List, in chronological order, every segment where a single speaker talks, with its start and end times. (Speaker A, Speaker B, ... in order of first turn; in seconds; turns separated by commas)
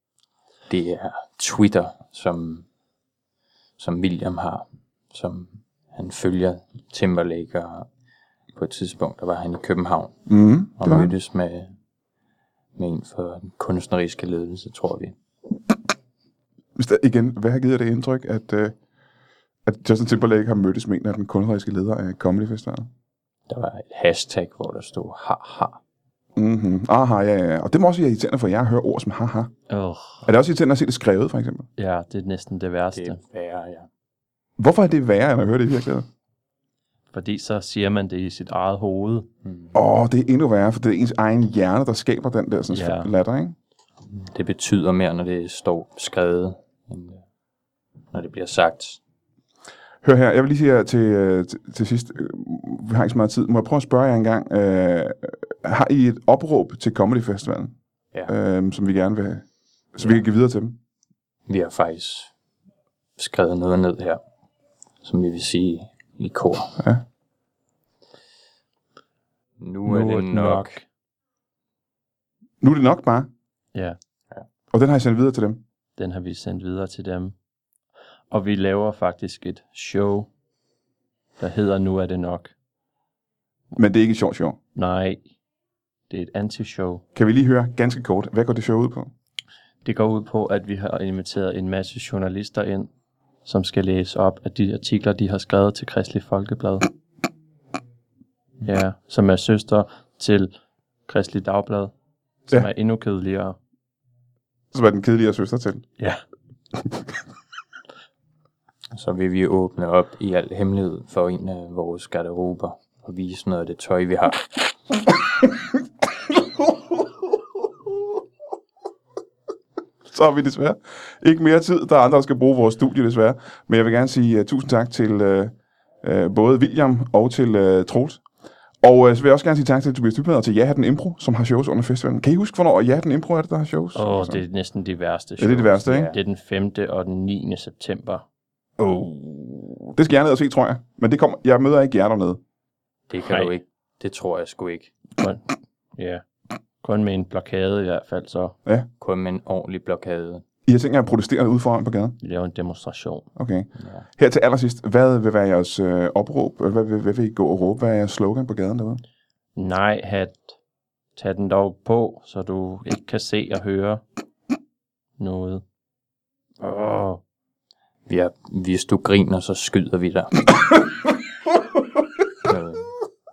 Speaker A: 0.7-2.6, Speaker A: 3.8-7.9, Speaker A: 8.6-11.7, Speaker B: 10.3-11.1, Speaker A: 12.8-15.2, Speaker B: 16.8-18.8, Speaker B: 19.6-22.9, Speaker A: 23.5-25.8, Speaker B: 26.4-29.5, Speaker C: 29.7-30.3, Speaker B: 30.3-31.7, Speaker C: 31.8-33.2, Speaker A: 32.9-33.9, Speaker B: 34.6-36.1, Speaker C: 37.1-39.3, Speaker A: 39.5-39.8, Speaker B: 39.7-43.5, Speaker C: 42.7-43.1, Speaker A: 44.1-47.2, Speaker A: 48.1-49.0, Speaker B: 50.0-57.8, Speaker B: 58.3-60.8, Speaker A: 61.5-62.3, Speaker A: 63.2-64.2, Speaker A: 65.0-66.8, Speaker A: 69.6-70.8, Speaker C: 69.9-70.8, Speaker B: 72.6-73.3, Speaker B: 74.7-75.6, Speaker C: 76.0-77.3, Speaker C: 78.3-80.3, Speaker C: 81.4-82.5, Speaker B: 83.8-84.6, Speaker C: 84.8-85.2, Speaker C: 86.1-87.0, Speaker B: 87.2-89.1, Speaker C: 89.8-92.9, Speaker C: 93.5-96.9, Speaker C: 98.6-100.5, Speaker C: 101.1-101.9, Speaker C: 102.5-103.6, Speaker B: 104.7-105.9, Speaker A: 108.9-114.5, Speaker B: 120.1-128.2, Speaker B: 128.8-134.4, Speaker C: 133.9-138.2, Speaker B: 135.4-136.1, Speaker A: 135.9-136.2, Speaker B: 138.8-142.4, Speaker A: 143.1-144.9, Speaker C: 143.2-143.5, Speaker C: 145.2-146.2, Speaker C: 146.8-148.6, Speaker A: 149.0-150.4, Speaker B: 150.7-152.2, Speaker C: 152.2-153.3, Speaker B: 153.4-159.0, Speaker A: 153.8-154.1, Speaker C: 159.6-160.5, Speaker C: 161.2-164.0, Speaker C: 165.2-165.6, Speaker C: 166.6-167.2, Speaker A: 168.1-170.5, Speaker A: 172.4-172.9